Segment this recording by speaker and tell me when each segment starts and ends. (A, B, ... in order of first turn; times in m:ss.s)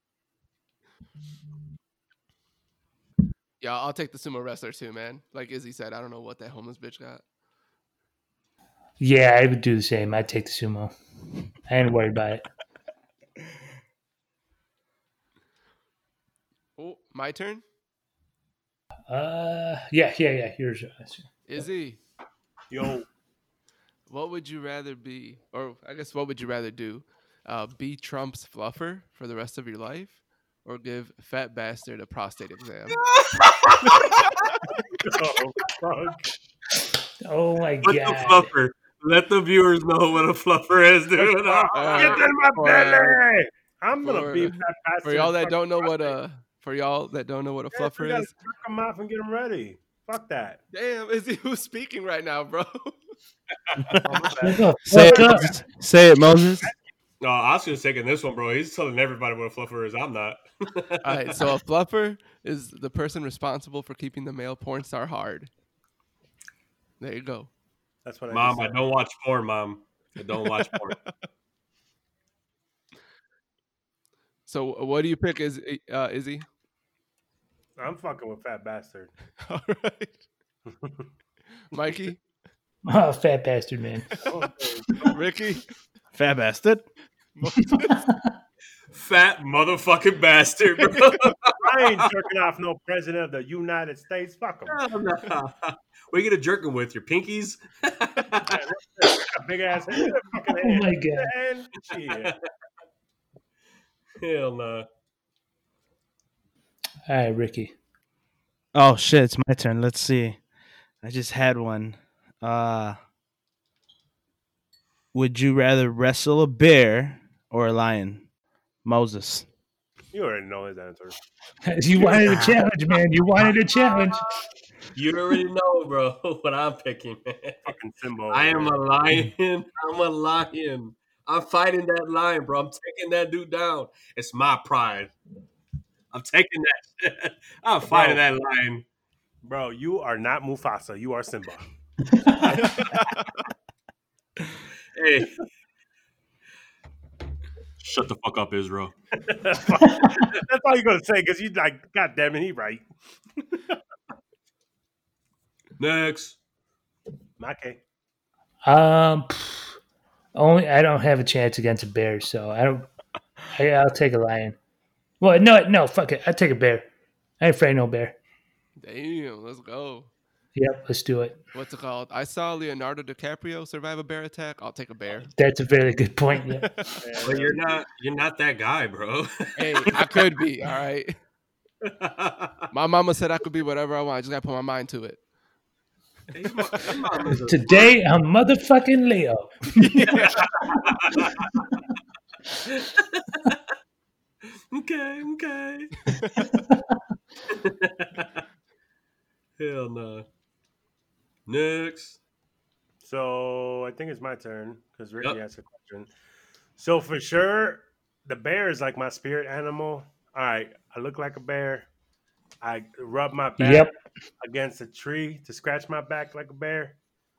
0:03.6-0:07.2 A
0:09.0-0:10.9 B
0:11.7-0:12.4 B
0:16.8-0:17.6 A
0:19.1-0:21.3 B
0:21.4-0:22.0 A
0:22.7-0:23.1 C
0:24.1-0:33.0 A
0:33.0-0:34.3 D
0:34.0-0:34.5 A
0:35.0-0:36.3 C
0:37.2-0:38.5 B
0:37.8-0:42.3 D
0:41.1-0:46.2 C
0:41.7-0:43.2 A
0:44.0-0:48.3 A
0:47.7-0:50.6 C
0:50.7-0:53.0 A
0:54.0-0:55.6 C
0:54.4-0:55.5 B
0:54.8-0:56.7 E
0:57.2-1:01.4 D
1:01.0-1:05.5 A
1:07.0-1:07.5 A
1:08.0-1:08.8 C
1:08.3-1:11.0 D
1:10.6-1:11.1 A
1:14.5-1:16.4 A
1:17.8-1:19.1 C
1:19.4-1:20.2 A
1:20.7-1:21.1 C
1:21.7-1:22.2 A
1:22.8-1:24.2 B
1:24.2-1:25.1 C
1:25.0-1:25.6 A
1:26.1-1:26.8 E
1:27.4-1:28.1 A
1:27.6-1:28.3 B
1:28.9-1:32.0 D
1:31.0-1:31.3 A
1:31.6-1:34.8 C
1:34.7-1:38.6 D
1:38.4-1:42.3 C
1:40.6-1:41.3 B
1:44.2-1:44.8 D
1:47.1-1:47.7 B
1:48.7-1:50.4 E
1:51.0-1:53.0 E
1:55.1-1:58.2 E
1:58.8-1:59.4 E
2:00.1-2:01.2 C
2:01.6-2:04.3 B
2:02.0-2:02.5 C
2:04.9-2:07.7 D
2:07.6-2:08.8 C
2:08.3-2:15.1 D
2:16.1-2:18.8 D
2:17.8-2:18.2 C
2:19.4-2:21.7 C
2:22.1-2:22.4 B
2:22.4-2:23.0 C
2:22.6-2:23.3 A
2:25.0-2:25.3 D
2:27.8-2:28.9 D
2:29.2-2:32.8 C
2:33.5-2:33.8 C
2:35.8-2:36.4 D
2:37.4-2:37.8 C
2:38.6-2:39.8 B
2:40.3-2:42.9 B
2:43.5-2:44.6 B
2:45.2-2:46.9 B
2:47.4-2:48.2 B
2:48.8-2:50.1 A
2:50.5-2:51.4 B
2:51.5-2:55.3 A
2:55.4-2:56.7 B
2:57.0-2:57.8 C
2:57.2-3:00.0 D
2:59.6-3:01.2 A
3:01.8-3:02.6 D
3:02.7-3:05.2 A
3:06.3-3:08.0 D
3:06.6-3:07.0 A
3:07.4-3:10.1 B
3:09.7-3:10.6 A
3:10.2-3:11.7 D
3:12.6-3:13.6 D
3:14.7-3:16.0 D
3:16.1-3:16.5 A
3:16.4-3:16.9 B
3:17.5-3:18.4 D
3:19.6-3:20.2 D
3:21.5-3:22.2 D
3:23.0-3:26.1 C
3:26.8-3:31.9 C
3:32.6-3:37.0 C
3:33.6-3:33.9 B